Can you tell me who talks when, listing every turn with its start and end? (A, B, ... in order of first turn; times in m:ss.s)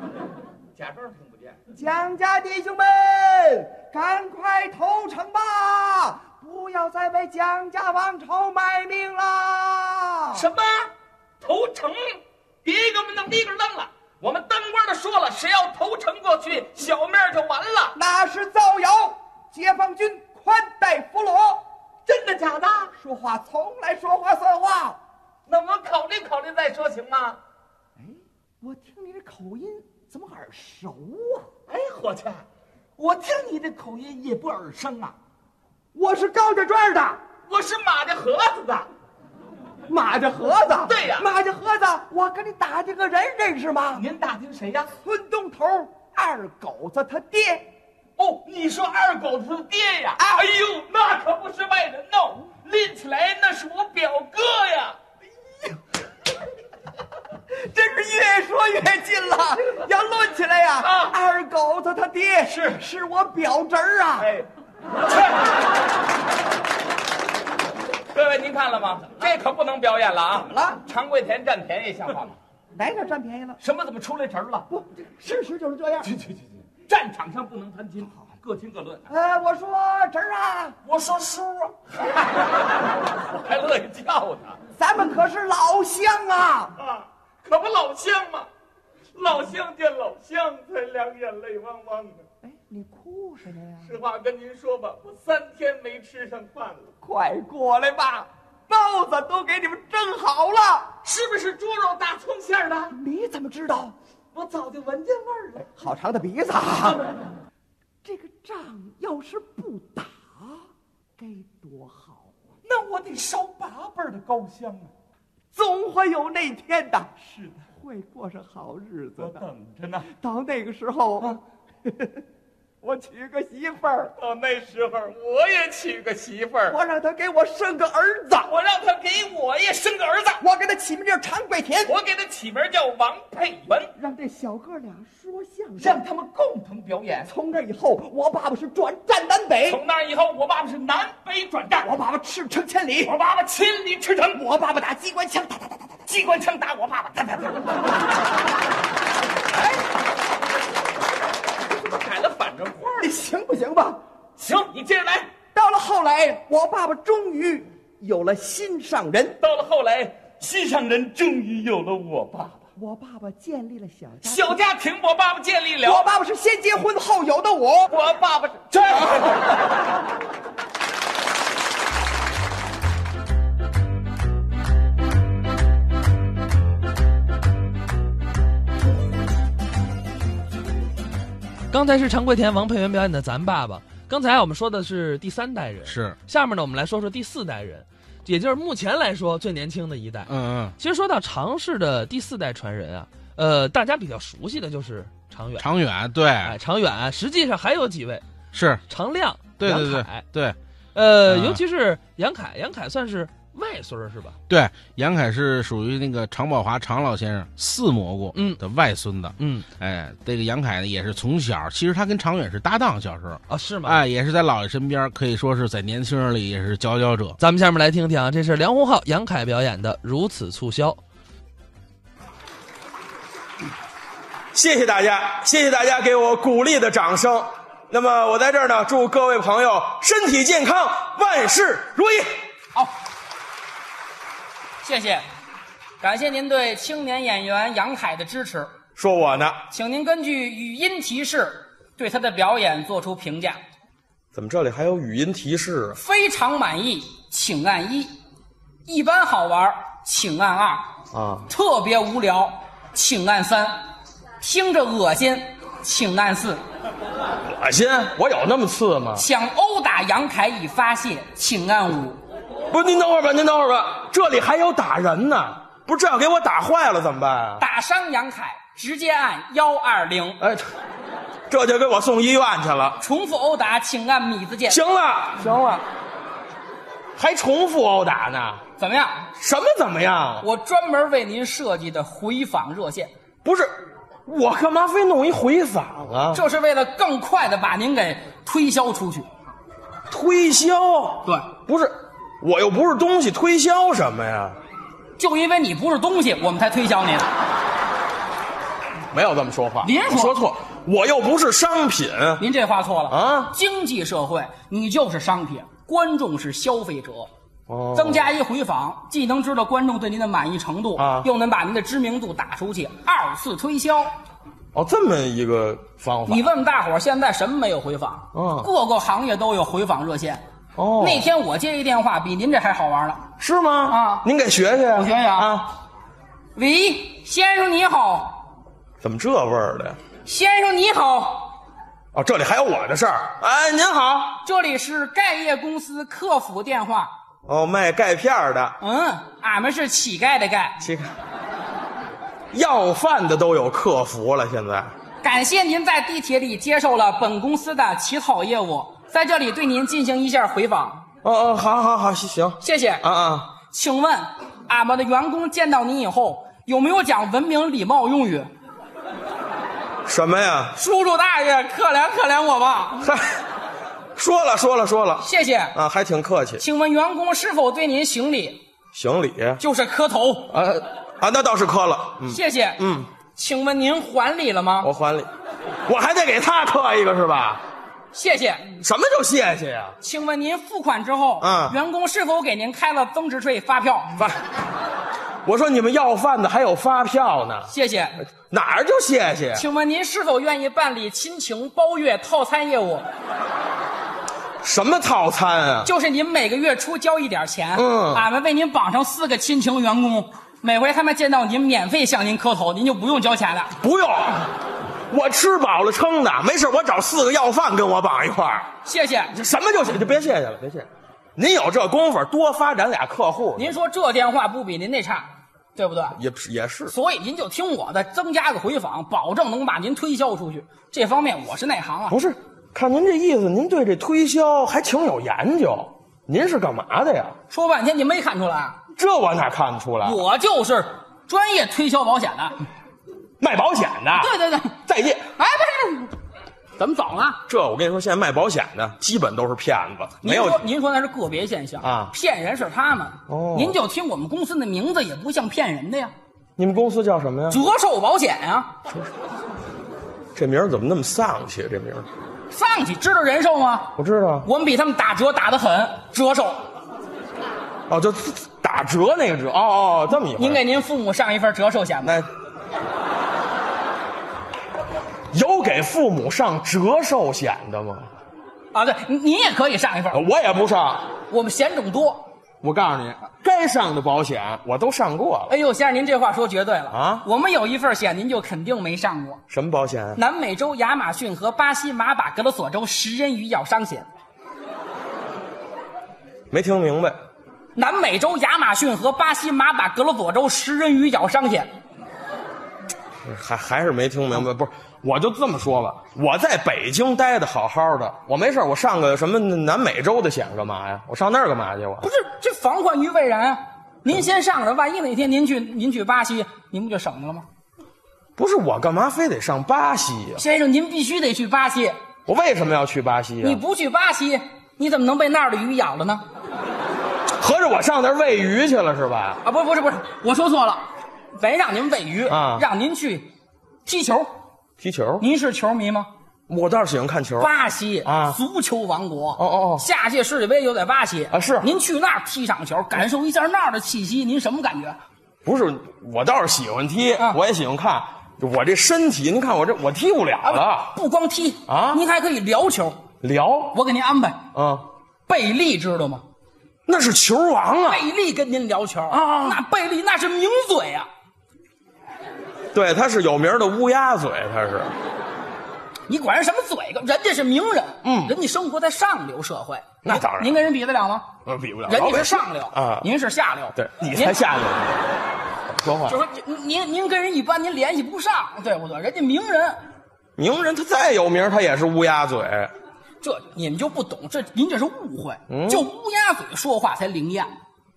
0:00.8-0:01.6 A
0:01.7-0:10.5 B
0:10.3-0:18.0 A
0:17.9-0:21.6 B
0:22.0-0:22.9 A
0:23.0-0:25.0 B
0:25.5-0:27.4 A
0:28.0-0:31.5 B
0:31.7-0:32.4 A
0:33.0-0:35.2 A
0:35.9-0:37.2 B
0:37.5-0:38.9 A
0:39.9-0:44.0 B
0:40.8-0:41.3 A
0:43.9-0:44.9 A
0:45.0-0:47.7 B
0:48.2-0:55.0 A
0:50.2-0:50.5 B
0:57.6-1:04.3 B
1:00.8-1:01.1 A
1:02.4-1:02.8 A
1:04.2-1:04.5 A
1:05.1-1:05.4 A
1:08.1-1:12.4 A
1:10.3-1:10.8 B
1:12.7-1:13.6 B
1:13.6-1:14.7 A
1:14.7-1:16.1 B
1:16.0-1:19.1 A
1:19.1-1:20.8 B
1:20.8-1:24.6 A
1:24.7-1:26.8 B
1:26.8-1:28.5 A
1:29.1-1:32.2 A
1:32.4-1:34.0 B
1:33.8-1:36.9 A
1:37.0-1:40.9 B
1:41.0-1:43.0 A
1:42.9-1:43.9 B
1:44.3-1:45.7 A
1:45.6-1:47.0 B
1:46.9-1:47.2 A
1:48.0-1:50.6 B
1:51.2-1:52.3 B
1:52.6-1:54.9 A
1:55.5-1:59.4 B
1:57.4-1:57.6 A
1:59.2-2:00.1 A
2:00.1-2:02.2 B
2:02.8-2:04.1 B
2:04.2-2:06.8 A
2:06.7-2:08.5 B
2:08.4-2:10.4 A
2:10.4-2:12.0 B
2:11.8-2:13.9 A
2:13.9-2:16.0 B
2:15.8-2:17.3 A
2:17.2-2:19.8 B
2:19.7-2:21.9 A
2:21.8-2:23.2 B
2:23.0-2:24.4 A
2:24.3-2:26.0 B
2:26.1-2:27.8 A
2:31.7-2:33.2 A
2:33.0-2:34.0 B
2:34.4-2:35.3 A
2:35.5-2:39.4 B
2:39.4-2:42.6 A
2:42.8-2:44.6 B
2:44.2-2:46.1 A
2:45.8-2:48.0 B
2:47.9-2:49.6 A
3:01.7-3:15.6 C
3:05.8-3:06.2 D
3:10.2-3:10.8 D
3:15.5-3:16.6 D
3:16.4-3:18.2 C
3:18.5-3:20.6 D
3:18.9-3:20.3 C
3:20.9-3:24.4 C
3:21.2-3:21.6 D
3:24.5-3:37.4 D
3:28.3-3:28.6 C
3:29.4-3:29.6 C
3:33.5-3:34.0 C
3:37.4-3:41.0 C
3:44.5-3:52.4 E
3:54.8-3:55.2 F
3:56.0-3:58.7 F
3:59.0-3:59.6 E
3:59.7-4:03.6 F
4:04.3-4:06.0 E
4:06.0-4:08.1 F
4:08.8-4:10.9 F
4:11.1-4:11.5 E
4:11.5-4:13.8 F
4:14.4-4:16.6 F
4:17.4-4:19.2 E
4:19.2-4:22.2 F
4:22.7-4:27.6 E
4:27.6-4:30.4 F
4:31.5-4:33.0 E
4:33.0-4:34.8 F
4:34.7-4:35.8 E
4:37.2-4:38.6 E
4:38.8-4:39.2 F
4:39.4-4:40.4 E
4:40.4-4:43.1 F
4:43.4-4:43.7 E
4:44.2-4:46.4 E
4:46.3-4:49.3 F
4:50.1-4:54.6 E
4:55.2-4:57.3 F
4:59.1-5:02.4 E
4:59.8-5:00.4 F
5:02.4-5:07.3 F
5:03.1-5:03.5 E
5:07.7-5:08.2 E
5:07.9-5:14.1 F
5:11.0-5:11.3 E
5:14.7-5:16.5 E
5:16.3-5:20.4 F
5:18.3-5:18.7 E
5:20.8-5:21.2 E
5:21.0-5:23.3 F
5:23.4-5:25.7 E
5:23.9-5:24.3 F
5:24.9-5:25.6 F
5:26.6-5:28.4 F
5:29.0-5:30.0 E
5:30.2-5:31.6 F
5:32.1-5:34.4 E
5:34.4-5:37.1 F
5:37.4-5:38.8 E
5:38.8-5:40.8 F
5:40.8-5:41.1 E
5:42.5-5:44.9 E
5:45.2-5:51.0 F
5:51.2-5:53.5 E
5:52.6-5:53.0 F
5:53.6-5:58.5 F
6:00.0-6:00.7 E
6:00.8-6:03.0 F
6:03.0-6:03.4 E
6:04.2-6:06.6 E
6:05.2-6:05.7 F
6:06.6-6:08.6 F
6:08.9-6:09.6 E
6:09.6-6:10.5 F
6:10.5-6:13.1 E
6:12.3-6:14.9 F
6:14.8-6:15.3 E
6:15.8-6:17.6 E
6:18.1-6:18.7 F
6:18.8-6:20.0 E
6:20.0-6:24.2 F
6:21.4-6:21.8 E
6:25.4-6:27.7 E
6:27.7-6:28.2 F
6:28.5-6:29.6 E
6:29.5-6:33.0 F
6:34.6-6:35.9 E
6:35.8-6:43.7 F
6:37.8-6:38.2 E
6:43.8-6:44.5 E
6:45.1-6:48.7 E
6:48.8-6:49.3 F
6:49.3-6:53.7 E
6:53.6-6:56.2 F
6:56.2-6:56.9 E
6:56.9-7:02.2 F
7:02.1-7:07.4 E
7:07.5-7:08.8 F
7:09.0-7:10.2 E
7:10.0-7:12.6 F
7:13.4-7:14.3 E
7:14.1-7:14.8 F
7:14.8-7:15.2 E
7:15.4-7:16.2 F
7:16.8-7:17.4 F
7:17.5-7:20.6 E
7:20.2-7:26.1 F
7:21.8-7:22.1 E
7:23.3-7:23.8 E
7:26.6-7:27.6 E
7:27.5-7:28.7 F
7:30.4-7:32.1 E
7:32.5-7:33.9 F
7:34.0-7:34.4 E
7:34.4-7:36.6 F
7:37.9-7:40.6 E
7:40.4-7:42.2 F
7:42.0-7:42.3 E
7:45.3-7:48.1 E
7:48.7-7:50.2 F
7:50.1-7:51.1 E
7:51.3-7:52.3 F
7:52.6-7:55.5 E
7:55.5-7:59.4 F
7:56.9-7:57.2 E
7:59.5-8:00.2 E
8:00.1-8:04.1 F
8:06.5-8:07.2 E
8:07.7-8:11.7 F
8:13.2-8:22.1 E
8:22.0-8:27.4 F
8:28.4-8:30.4 E
8:30.4-8:32.0 F
8:32.3-8:33.6 E
8:33.4-8:36.2 F
8:37.4-8:39.4 E
8:39.4-8:43.3 F
8:42.3-8:42.6 E
8:43.8-8:44.3 F
8:44.8-8:45.2 E
8:45.2-8:46.1 F
8:46.5-8:47.5 E
8:47.4-8:55.0 F
8:48.0-8:48.4 E
8:49.4-8:49.8 E
8:51.3-8:51.7 E
8:55.4-9:00.9 E
9:00.4-9:03.0 F
9:01.7-9:02.0 E
9:03.2-9:03.8 E
9:03.7-9:04.4 F
9:04.5-9:04.8 E
9:05.3-9:06.2 F
9:06.8-9:08.0 E
9:07.8-9:11.1 F
9:09.1-9:09.6 E
9:12.7-9:14.9 E
9:16.1-9:21.3 F
9:18.0-9:18.3 E
9:20.0-9:20.5 E
9:21.4-9:23.1 E
9:21.9-9:24.5 F
9:23.8-9:24.9 E
9:25.8-9:26.2 E
9:26.0-9:29.8 F
9:30.4-9:32.7 E
9:33.2-9:37.5 F
9:35.5-9:35.8 E